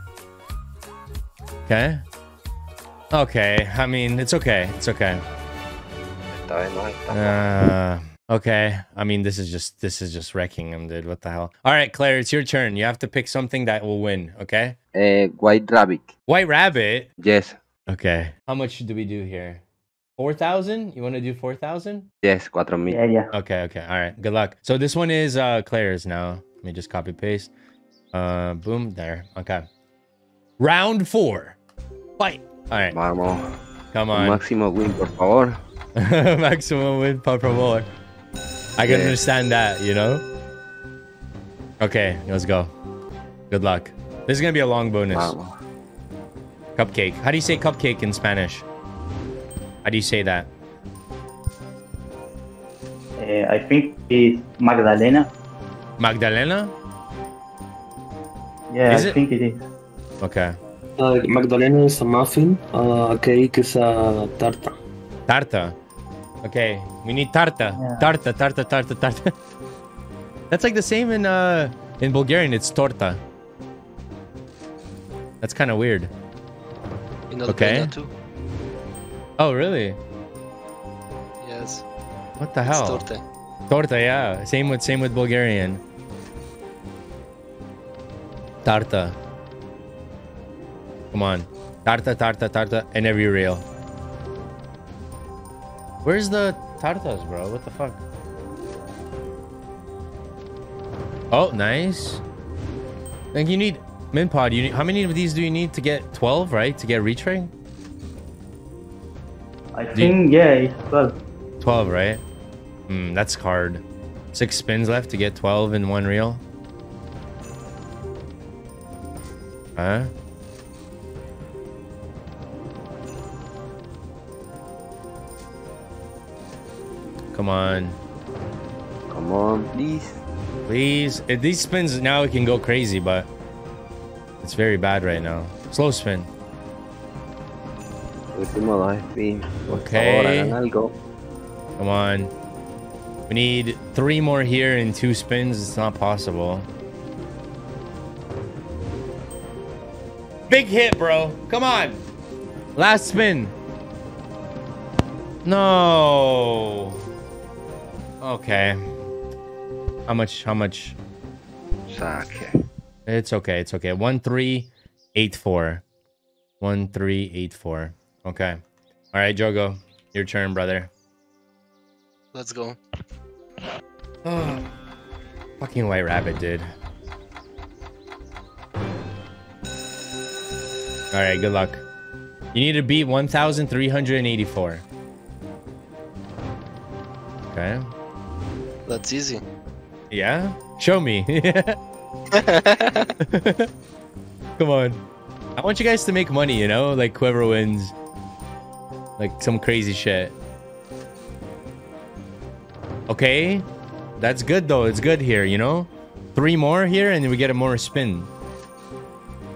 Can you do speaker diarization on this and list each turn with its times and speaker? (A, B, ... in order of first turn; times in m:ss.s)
0:01.7-0:02.0 A
0:03.1-0:05.2 A
0:06.3-0:07.5 B
0:07.1-0:14.8 A
0:14.9-0:16.1 B
0:16.3-0:17.1 A
0:17.2-0:17.6 B
0:17.9-0:19.6 A
0:20.2-0:22.1 A
0:22.2-0:23.0 B
0:22.9-0:23.3 C
0:23.3-0:27.5 A
0:28.1-0:29.7 A
0:30.6-0:31.6 A
0:32.2-0:33.0 A
0:32.9-0:33.5 B
0:33.9-0:34.4 A
0:34.1-0:35.6 B
0:36.0-0:37.9 A
0:38.8-0:40.2 A
0:38.8-0:39.2 B
0:41.8-0:42.7 A
0:43.5-0:45.3 A
0:45.1-0:45.6 B
0:46.8-0:48.7 A
0:49.8-0:50.5 A
0:53.2-0:55.3 C
0:56.0-0:56.7 A
0:58.7-0:59.6 C
0:58.9-0:59.2 A
1:00.2-1:00.6 A
1:01.0-1:04.7 D
1:05.3-1:05.8 A
1:06.4-1:09.3 A
1:07.8-1:08.1 C
1:10.5-1:13.2 A
1:15.4-1:16.1 A
1:17.3-1:18.1 E
1:17.5-1:17.9 A
1:19.4-1:20.0 A
1:21.4-1:21.8 E
1:22.4-1:23.0 A
1:22.7-1:23.2 E
1:23.7-1:25.8 A
1:28.6-1:29.2 A
1:31.1-1:33.6 A
1:36.0-1:38.0 A
1:41.3-1:42.2 A
1:43.3-1:47.5 A
1:49.8-1:51.2 C
1:51.6-1:52.2 A
1:52.9-1:56.4 A
1:59.8-2:00.1 A
2:07.3-2:08.0 A
2:09.1-2:10.2 B
2:10.7-2:13.3 A
2:14.4-2:16.3 A
2:18.3-2:21.0 B
2:19.7-2:20.6 A
2:21.8-2:22.3 A
2:23.3-2:26.7 A
2:30.5-2:32.0 A
2:32.8-2:33.6 A
2:35.4-2:37.0 A
2:38.2-2:38.9 A
2:40.1-2:41.0 A
2:41.9-2:42.5 B
2:43.1-2:45.8 A
2:46.6-2:48.6 A
2:49.1-2:50.9 A
2:52.3-2:52.8 E
2:54.2-2:54.7 A
2:55.6-2:56.7 A
3:01.1-3:01.8 A
3:02.5-3:04.8 A
3:07.5-3:07.9 A
3:08.9-3:09.4 E
3:10.1-3:11.8 A
3:12.3-3:13.2 E
3:13.2-3:13.7 A
3:14.6-3:15.0 A
3:15.6-3:18.0 A
3:19.2-3:20.4 A
3:23.1-3:23.7 A
3:24.2-3:28.3 A